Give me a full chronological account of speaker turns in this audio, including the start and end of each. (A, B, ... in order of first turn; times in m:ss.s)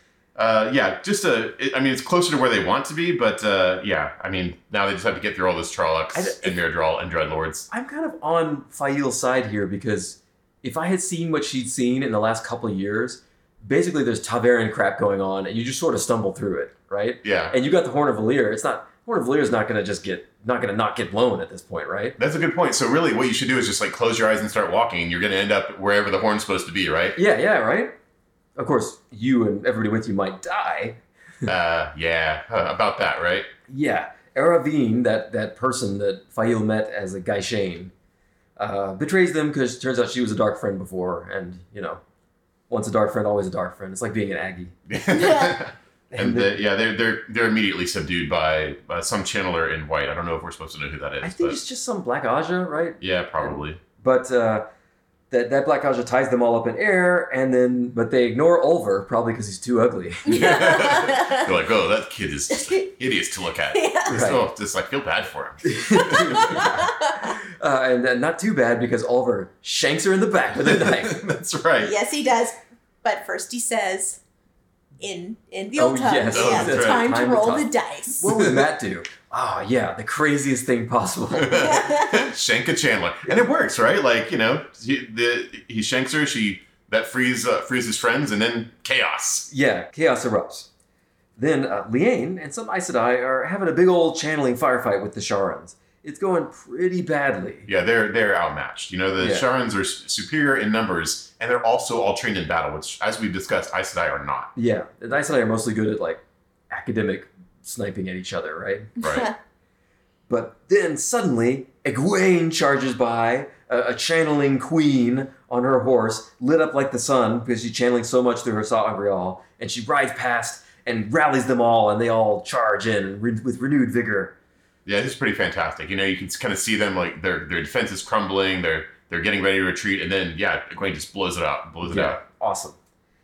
0:00.4-0:07.7 A
0:06.1-0:06.6 B
0:07.7-0:22.2 B
0:17.2-0:17.6 A
0:22.2-0:27.2 A
0:27.2-0:27.9 B
0:28.6-0:31.5 B
0:31.4-0:33.5 A
0:33.7-0:37.9 B
0:38.6-0:42.0 B
0:42.7-0:44.7 B
0:44.9-0:51.6 A
0:45.2-0:45.5 C
0:46.1-0:46.5 B
0:51.2-0:54.6 B
0:53.0-0:53.8 A
0:55.3-1:00.5 B
1:00.2-1:06.2 A
1:00.3-1:01.5 C
1:02.5-1:02.8 C
1:03.7-1:04.1 C
1:04.1-1:04.4 B
1:05.6-1:11.2 B
1:06.2-1:07.3 C
1:10.6-1:11.9 A
1:11.8-1:14.2 C
1:15.0-1:18.3 C
1:15.8-1:17.7 B
1:16.3-1:17.0 A
1:18.2-1:21.8 B
1:18.3-1:18.6 A
1:21.3-1:29.5 A
1:21.5-1:22.3 C
1:29.5-1:30.7 B
1:31.4-1:37.7 B
1:37.6-1:44.5 A
1:39.2-1:39.4 B
1:44.6-1:48.9 B
1:49.0-1:49.3 A
1:49.0-1:49.3 C
1:50.3-2:04.3 B
2:04.8-2:12.2 A
2:11.8-2:12.8 B